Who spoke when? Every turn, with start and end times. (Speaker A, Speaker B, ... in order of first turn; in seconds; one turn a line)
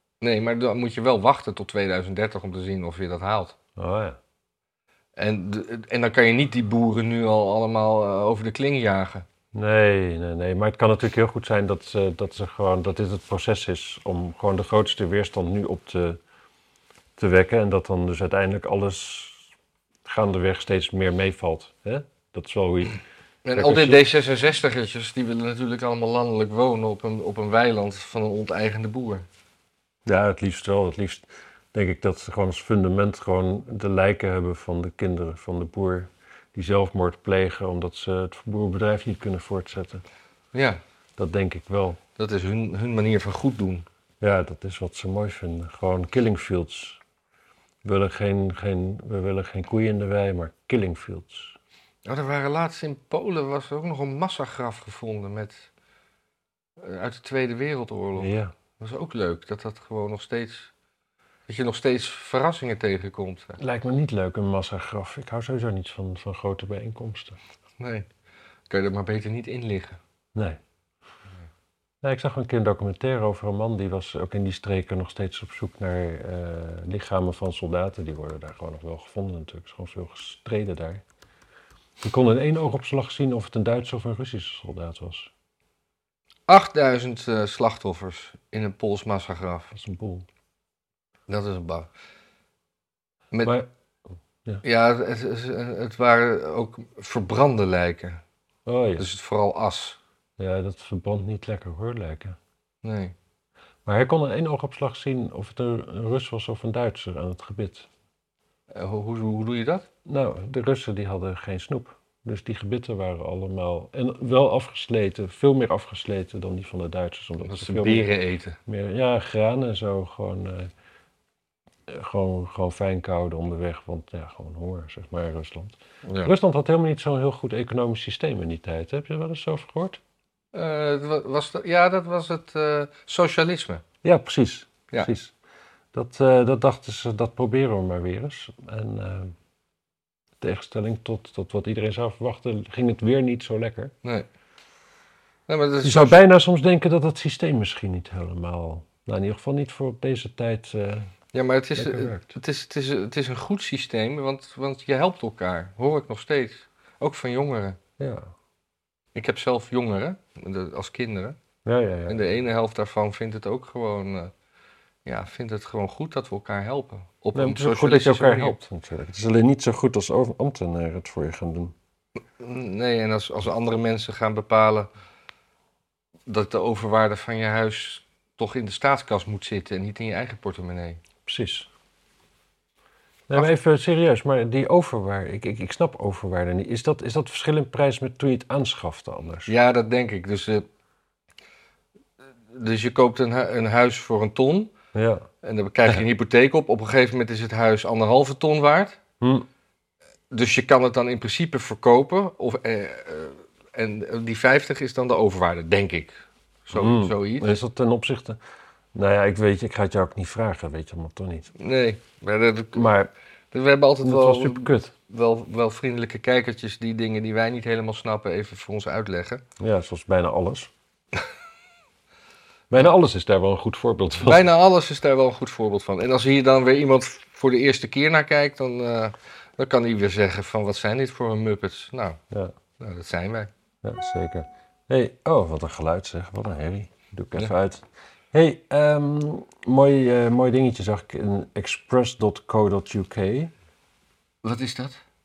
Speaker A: 0.2-3.5
Speaker B: 3.8-4.2
Speaker A: 5.2-9.2
Speaker B: 9.5-16.2
Speaker B: 17.2-19.4
Speaker B: 20.0-23.0
Speaker A: 23.4-29.2
Speaker B: 23.5-24.0
Speaker B: 30.0-40.0
Speaker A: 40.5-40.8
Speaker B: 41.2-42.0
Speaker A: 42.2-43.9
Speaker B: 44.2-47.0
Speaker B: 47.8-51.5
Speaker A: 52.0-55.7
Speaker A: 56.8-60.7
Speaker B: 58.1-58.5
Speaker A: 61.5-63.6
Speaker B: 63.6-67.4
Speaker A: 67.8-68.1
Speaker A: 68.7-70.0
Speaker B: 70.3-70.6
Speaker B: 72.0-81.0
Speaker B: 82.0-85.3
Speaker A: 86.5-89.7
Speaker B: 89.7-90.2
Speaker A: 91.3-91.9
Speaker A: 94.6-98.2
Speaker B: 98.7-99.1
Speaker A: 99.0-100.0
Speaker B: 100.4-102.4
Speaker A: 102.8-103.1
Speaker B: 103.8-107.9
Speaker A: 108.7-109.8
Speaker B: 110.0-118.1
Speaker A: 117.4-118.6
Speaker B: 118.7-120.7
Speaker B: 121.9-130.0
Speaker A: 126.0-126.3
Speaker A: 130.5-133.8
Speaker B: 134.0-135.3
Speaker B: 135.9-139.3
Speaker B: 140.4-143.9
Speaker A: 145.5-146.2
Speaker B: 145.8-151.1
Speaker A: 151.3-157.8
Speaker B: 151.8-152.3
Speaker B: 158.0-158.3
Speaker A: 159.1-161.4
Speaker B: 161.6-162.2
Speaker A: 162.1-164.3
Speaker A: 165.0-168.6
Speaker B: 167.3-171.7
Speaker A: 172.4-174.9
Speaker A: 176.3-181.0
Speaker B: 181.2-181.7
Speaker B: 183.3-189.5
Speaker A: 189.5-190.7
Speaker A: 192.5-194.7
Speaker B: 194.9-195.2
Speaker A: 195.4-199.0
Speaker B: 199.2-199.4
Speaker A: 200.3-207.5
Speaker B: 206.7-208.4
Speaker B: 208.9-211.5
Speaker A: 211.6-212.8
Speaker B: 212.7-213.1
Speaker A: 213.5-219.4
Speaker B: 214.0-214.9
Speaker B: 219.6-220.7
Speaker B: 222.7-224.4
Speaker A: 224.2-232.2
Speaker A: 232.8-233.5
Speaker B: 233.8-243.5
Speaker A: 244.4-245.0